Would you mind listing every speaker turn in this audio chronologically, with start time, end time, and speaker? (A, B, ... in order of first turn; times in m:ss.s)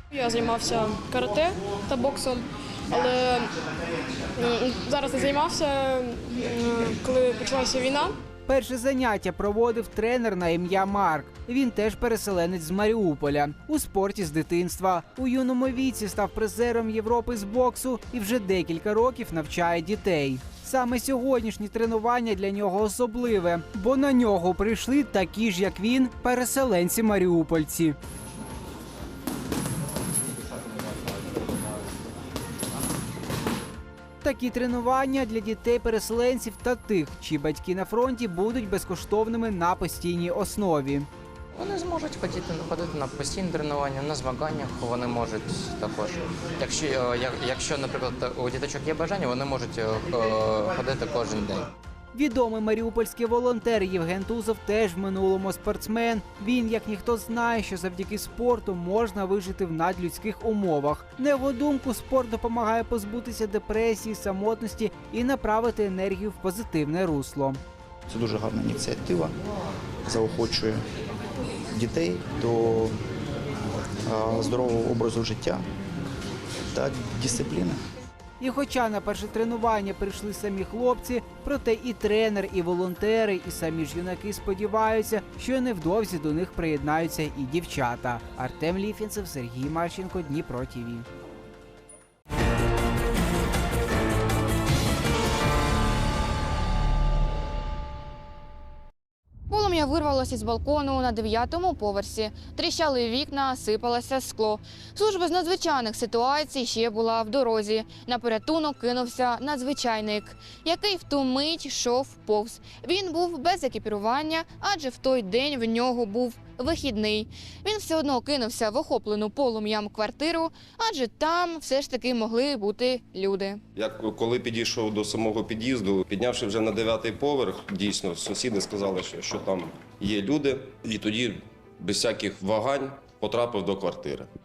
0:00.1-0:03.5 A
0:04.4-0:08.2 A
0:08.5-0:28.0 B
0:34.2-0:41.1 B
0:41.6-0:46.1 C
0:46.6-0:49.7 C
0:50.2-0:50.9 C
0:52.1-1:07.6 B
1:08.1-1:09.3 D
1:10.1-1:10.8 D
1:11.7-1:12.9 D
1:14.1-1:15.6 D
1:16.7-1:17.8 D
1:18.4-1:31.0 B
1:39.5-2:03.6 E
2:03.8-2:14.3 F